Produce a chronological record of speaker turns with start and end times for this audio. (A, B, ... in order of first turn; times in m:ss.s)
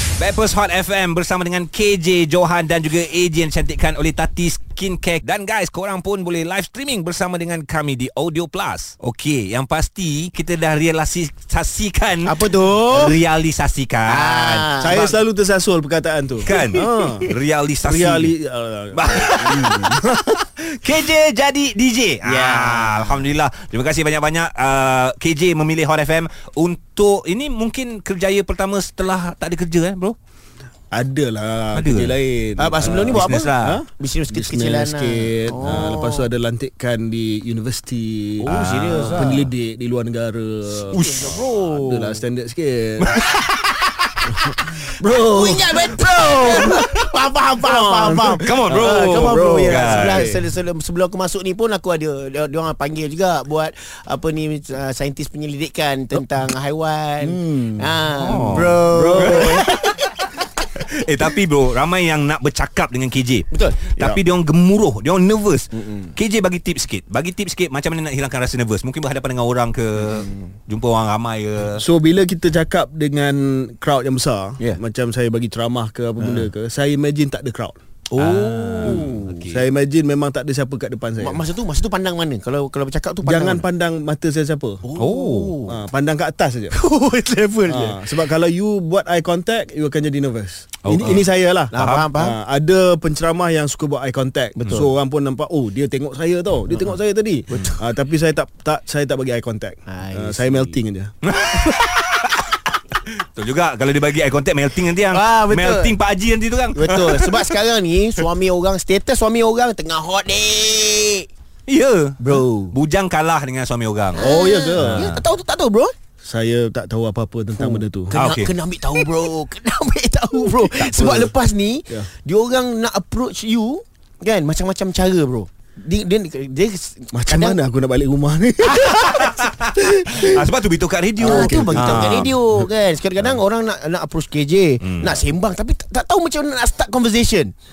0:00.2-0:12.4 A
0:12.3-0:13.2 B
0:12.9-0:15.1 A
0:14.1-0:15.1 B
0:14.8-0:20.3 C
0:16.4-0:18.3 A
0:16.5-0:17.3 B
0:18.9-0:30.1 A
0:19.1-0:19.9 B
0:22.3-0:23.3 B
0:30.9-0:41.0 C
0:31.7-0:32.2 A
0:32.6-0:36.3 B
0:32.8-0:33.8 A
0:38.4-0:39.5 B
0:38.5-0:39.2 A
0:40.7-0:42.2 B
0:40.9-0:41.5 A
0:41.6-0:43.2 C
0:43.0-0:43.4 A
0:44.4-1:00.3 B
0:45.0-0:46.9 C
0:45.9-0:47.0 A
0:47.6-0:50.4 C
0:48.4-0:50.3 A
0:57.2-0:59.7 C
0:58.2-0:59.7 A
1:00.8-1:11.8 A
1:03.5-1:03.8 B
1:05.7-1:06.1 B
1:10.0-1:10.4 B
1:11.8-1:17.8 C
1:16.2-1:16.5 B
1:18.1-1:19.5 B
1:18.2-1:19.6 A
1:18.8-1:21.4 C
1:21.2-1:23.6 B
1:23.2-1:24.8 C
1:24.8-1:25.8 B
1:25.0-1:25.6 A
1:25.6-1:26.8 C
1:26.7-1:28.1 B
1:27.7-1:41.1 C
1:30.8-1:31.2 A
1:31.7-1:32.4 B
1:31.8-1:32.1 A
1:34.6-1:34.9 B
1:37.5-1:37.8 B
1:39.9-1:40.8 B
1:41.2-1:42.4 A
1:43.3-1:47.5 A
1:45.1-1:46.0 B
1:46.7-1:51.3 B
1:51.7-1:54.2 A
1:52.2-1:52.7 B
1:54.1-1:55.9 B
1:54.2-1:55.2 C
1:54.8-1:55.2 A
1:56.2-1:58.2 C
1:57.6-2:07.6 B
1:58.1-1:58.5 A
2:00.7-2:01.3 C
2:07.1-2:10.5 C
2:08.6-2:09.3 B
2:08.9-2:12.7 A
2:11.2-2:17.5 B
2:11.2-2:12.1 C
2:14.8-2:15.2 A